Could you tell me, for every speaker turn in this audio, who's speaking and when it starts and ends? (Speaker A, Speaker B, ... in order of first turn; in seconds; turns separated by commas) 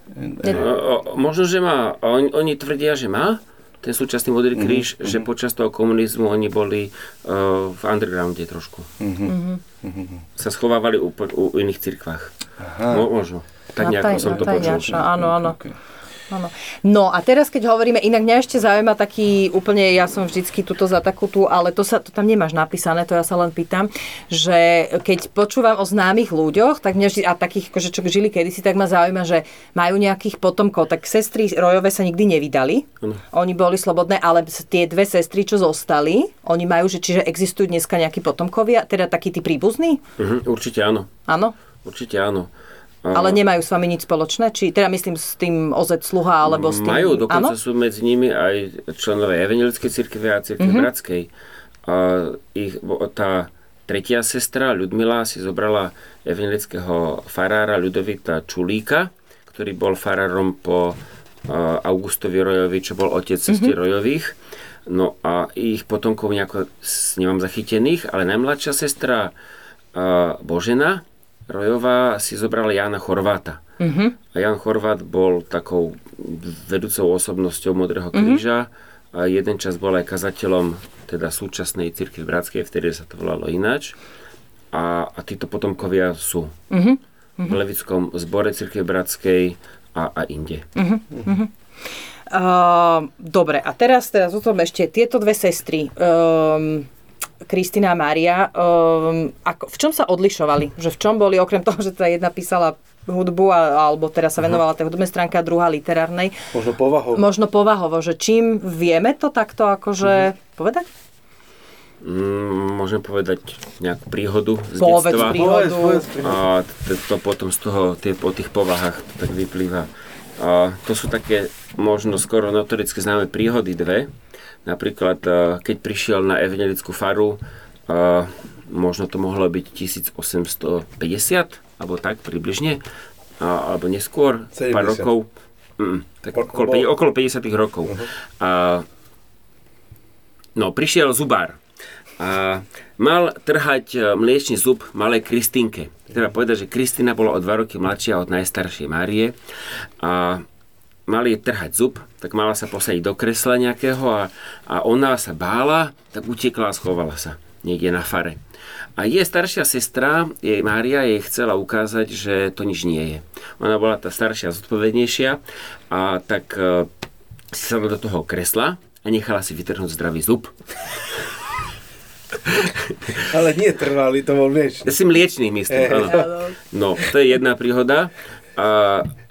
Speaker A: 0.2-0.7, Speaker B: 0.5-8.9, Speaker A: 4.5-5.3, Speaker A: 9.0-10.2, Speaker C: 9.3-9.6, Speaker B: 10.4-12.3, Speaker A: 12.6-13.1, Speaker B: 12.9-14.9, Speaker C: 13.8-15.6, Speaker A: 14.1-15.8, Speaker C: 16.3-40.0, Speaker B: 40.2-41.1, Speaker C: 41.3-41.5, Speaker B: 41.9-42.5, Speaker B: 43.0-43.4, Speaker C: 43.1-47.5, Speaker B: 46.5-51.3, Speaker C: 50.6-50.9, Speaker B: 51.9-64.3, Speaker C: 63.5-63.7, Speaker B: 64.9-69.3, Speaker B: 69.9-73.6, Speaker C: 73.8-74.2, Speaker B: 74.3-84.0, Speaker C: 78.1-78.4, Speaker B: 84.7-86.6, Speaker C: 86.7-87.6, Speaker B: 87.5-90.7, Speaker C: 90.8-91.5, Speaker C: 92.3-96.9, Speaker C: 97.5-106.3, Speaker A: 106.5-107.2, Speaker C: 107.1-110.9, Speaker B: 112.0-115.4, Speaker C: 114.8-116.0, Speaker A: 115.2-116.4, Speaker B: 116.2-124.1, Speaker B: 124.7-132.8, Speaker B: 133.4-138.9, Speaker A: 134.6-135.1, Speaker A: 136.3-136.9, Speaker B: 140.6-141.6, Speaker B: 142.2-149.3, Speaker B: 150.0-150.4, Speaker B: 151.1-158.4, Speaker B: 159.0-166.9, Speaker B: 167.5-171.2, Speaker B: 172.4-173.2, Speaker A: 173.1-175.0, Speaker B: 174.8-179.1, Speaker A: 175.7-176.3, Speaker C: 176.0-176.5